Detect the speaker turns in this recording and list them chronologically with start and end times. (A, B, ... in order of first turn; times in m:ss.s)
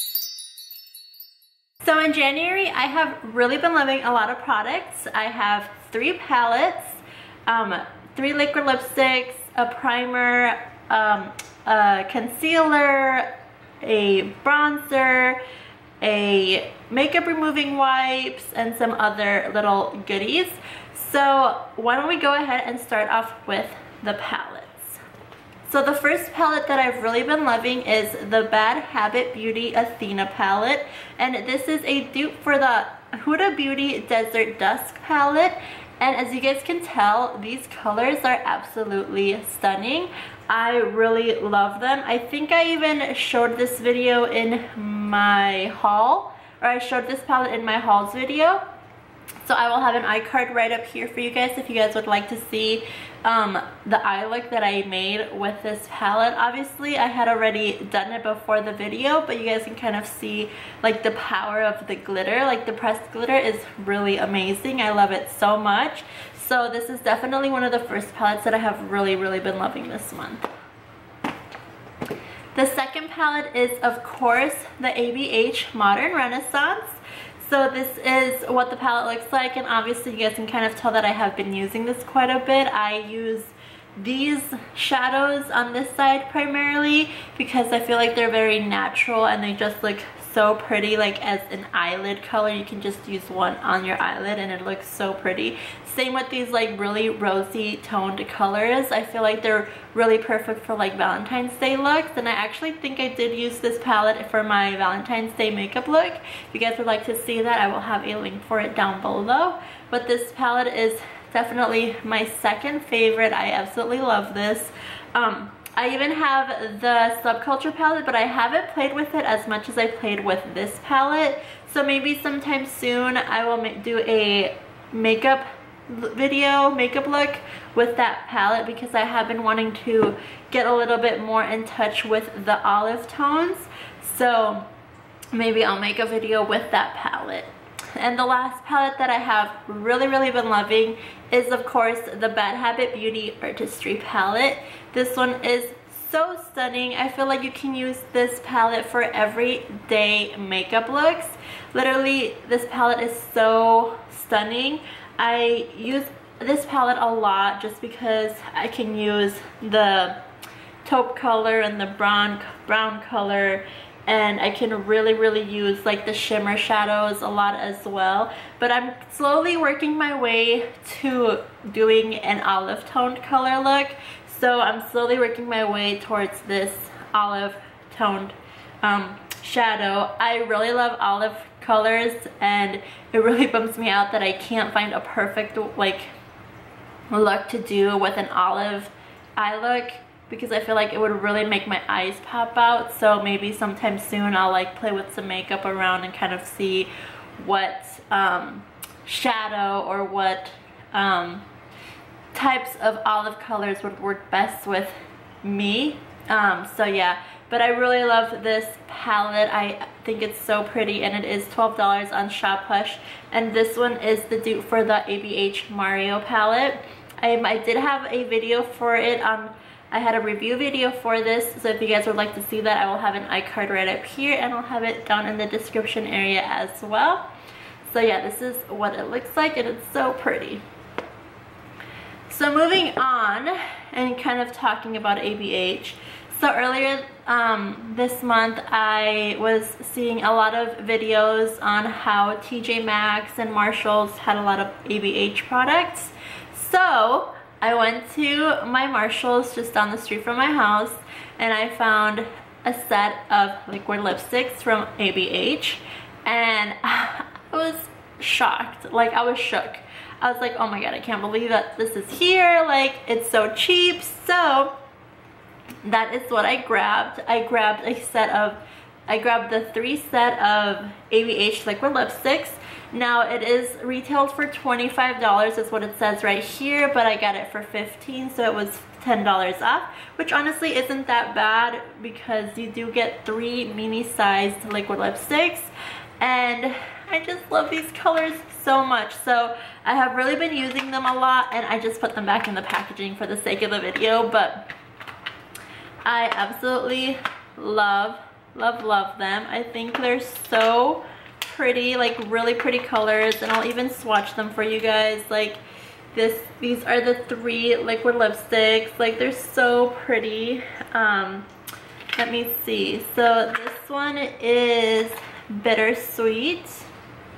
0:01.8-0:13.3 A
0:13.8-0:15.4 A
0:16.0-0:25.0 A
0:25.6-0:48.6 A
0:49.4-1:10.5 A
1:12.6-2:14.7 A
2:15.3-2:40.2 A
2:40.8-3:06.1 A
3:07.1-3:21.4 A
3:22.3-3:47.3 A
3:47.8-3:50.6 A
3:52.3-4:24.7 A
4:25.8-4:54.7 A
4:56.0-5:05.6 A
5:06.1-5:11.5 A
5:12.2-5:16.9 A